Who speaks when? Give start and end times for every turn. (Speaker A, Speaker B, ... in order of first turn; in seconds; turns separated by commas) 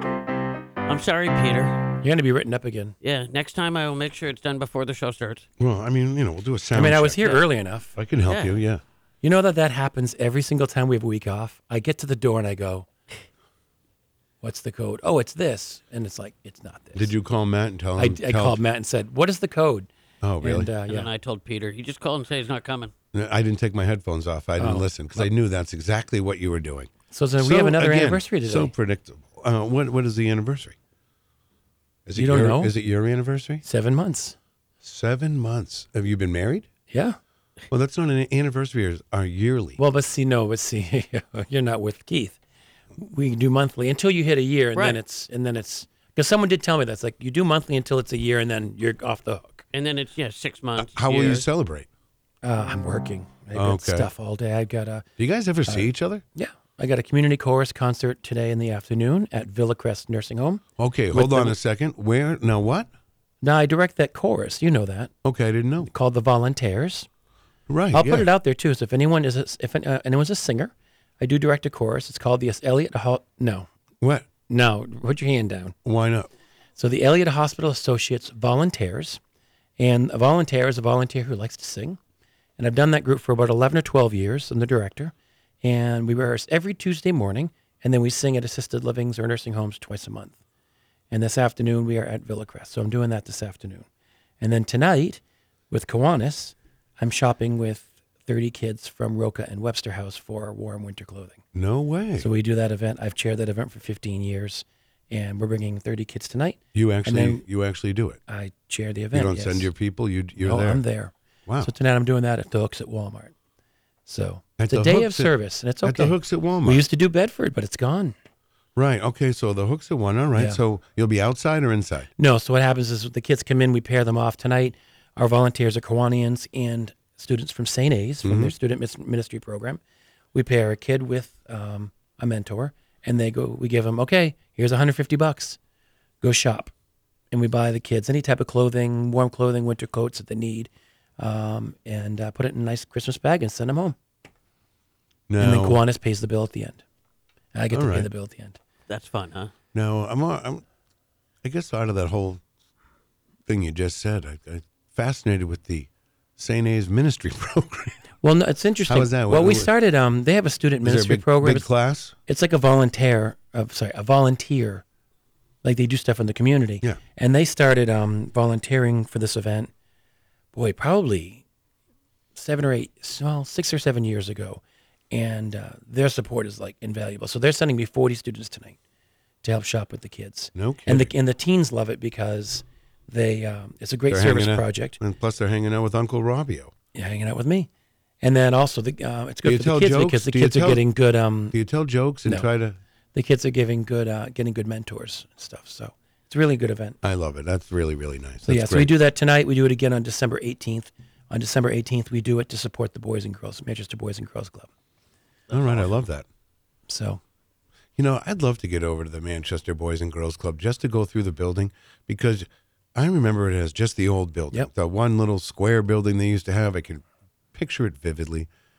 Speaker A: 0.8-1.8, Speaker B: 2.0-2.9, Speaker A: 3.0-5.5, Speaker C: 5.6-7.2, Speaker B: 6.7-7.9, Speaker C: 8.0-8.8, Speaker A: 8.2-8.6, Speaker B: 9.2-12.9, Speaker B: 14.4-17.1, Speaker C: 16.9-18.6, Speaker B: 18.0-19.9, Speaker C: 20.2-20.7, Speaker B: 20.4-21.1, Speaker A: 20.9-22.9, Speaker C: 23.1-30.8, Speaker B: 24.6-25.3, Speaker B: 27.1-28.7, Speaker C: 32.0-33.6, Speaker B: 32.1-32.7, Speaker B: 33.6-34.4, Speaker C: 34.8-36.7, Speaker B: 36.9-37.2, Speaker C: 37.7-39.8, Speaker B: 39.8-42.4, Speaker B: 43.0-49.6, Speaker A: 49.7-51.5, Speaker C: 50.8-51.9, Speaker B: 52.4-55.0, Speaker C: 53.5-54.1, Speaker C: 55.2-56.2, Speaker B: 55.7-61.5, Speaker C: 60.8-62.9, Speaker B: 63.4-65.1, Speaker C: 65.2-65.9, Speaker B: 65.8-67.1, Speaker C: 67.7-68.3, Speaker B: 67.9-73.7, Speaker C: 74.0-74.3, Speaker B: 74.5-75.8, Speaker C: 75.8-76.3, Speaker B: 76.8-79.2, Speaker B: 79.8-82.0, Speaker B: 82.6-90.4, Speaker B: 91.1-93.8, Speaker B: 94.4-101.4, Speaker C: 101.5-102.3, Speaker B: 102.2-107.4, Speaker C: 106.7-108.2, Speaker B: 108.3-109.7, Speaker C: 109.1-110.8, Speaker B: 110.4-113.3, Speaker C: 111.5-111.7, Speaker B: 114.1-118.1, Speaker C: 114.6-116.8, Speaker C: 118.8-122.1, Speaker B: 122.2-129.8, Speaker C: 128.2-128.5, Speaker B: 130.3-135.6, Speaker B: 136.2-136.7, Speaker B: 137.3-144.0, Speaker C: 145.3-145.8, Speaker B: 145.4-146.8, Speaker B: 147.5-148.6, Speaker C: 147.7-148.1, Speaker A: 148.9-149.5, Speaker C: 149.7-150.6, Speaker C: 151.4-152.4, Speaker C: 153.4-158.0, Speaker B: 158.2-161.7, Speaker C: 158.8-159.7, Speaker C: 160.8-162.2, Speaker B: 162.3-164.8, Speaker B: 165.6-169.7, Speaker B: 170.5-171.4, Speaker B: 172.3-178.8, Speaker B: 179.4-185.0, Speaker C: 180.5-181.1, Speaker C: 184.1-186.7, Speaker B: 186.9-187.7, Speaker B: 188.2-191.6, Speaker C: 189.4-190.8, Speaker C: 191.5-192.8, Speaker B: 193.1-197.0, Speaker C: 197.0-198.9, Speaker B: 198.4-204.7, Speaker C: 205.5-206.2, Speaker B: 206.9-207.2, Speaker C: 207.9-218.5